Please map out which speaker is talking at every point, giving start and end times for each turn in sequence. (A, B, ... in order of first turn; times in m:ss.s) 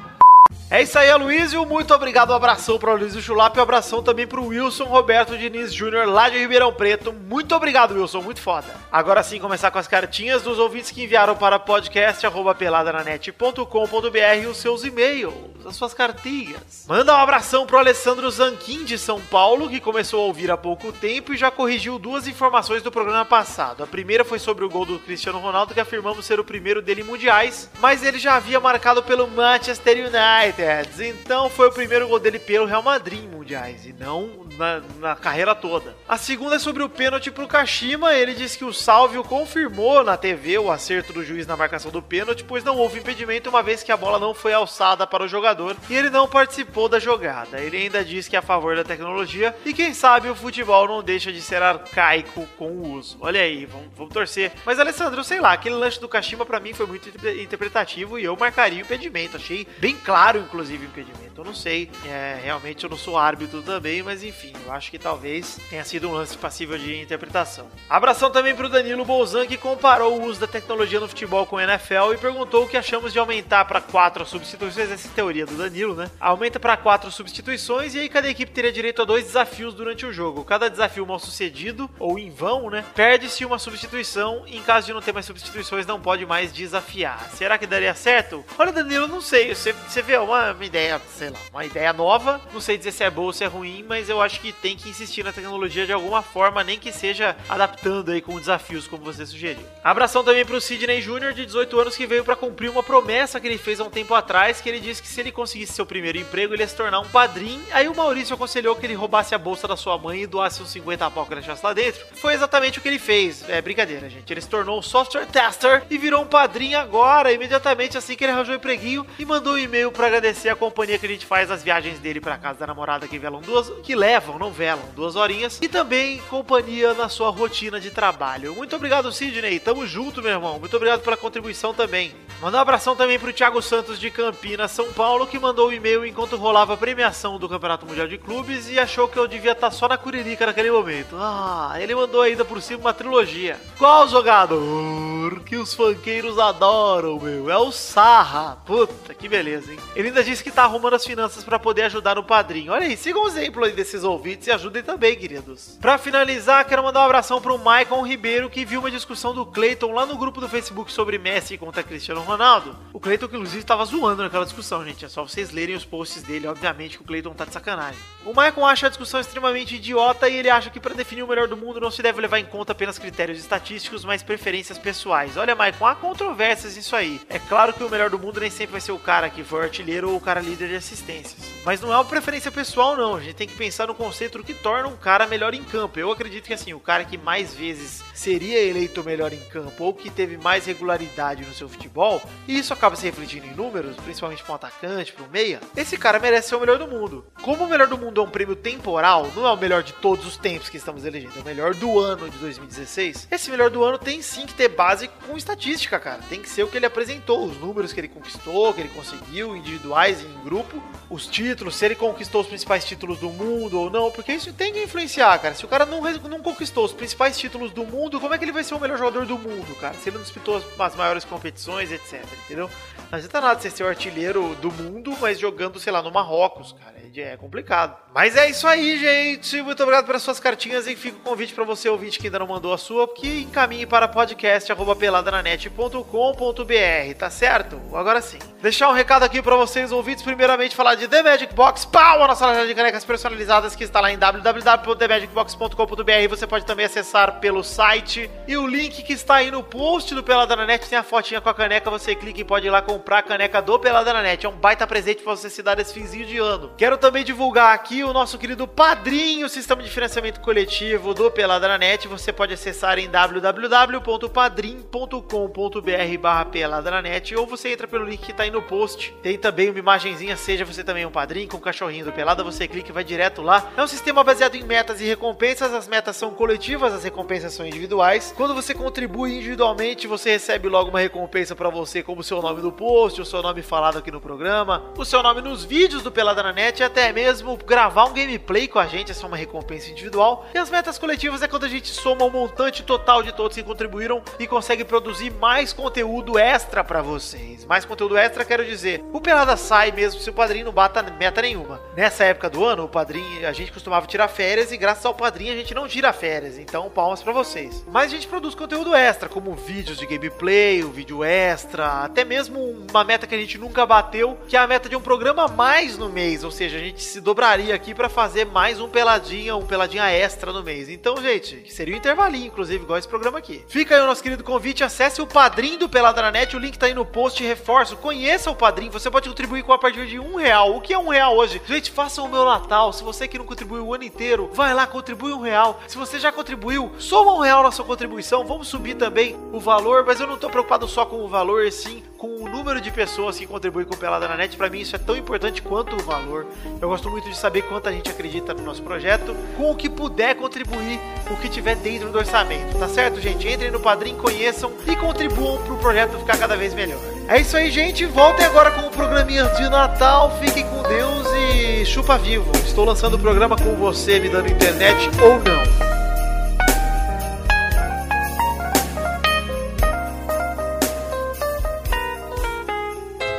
0:00.7-6:05.7 A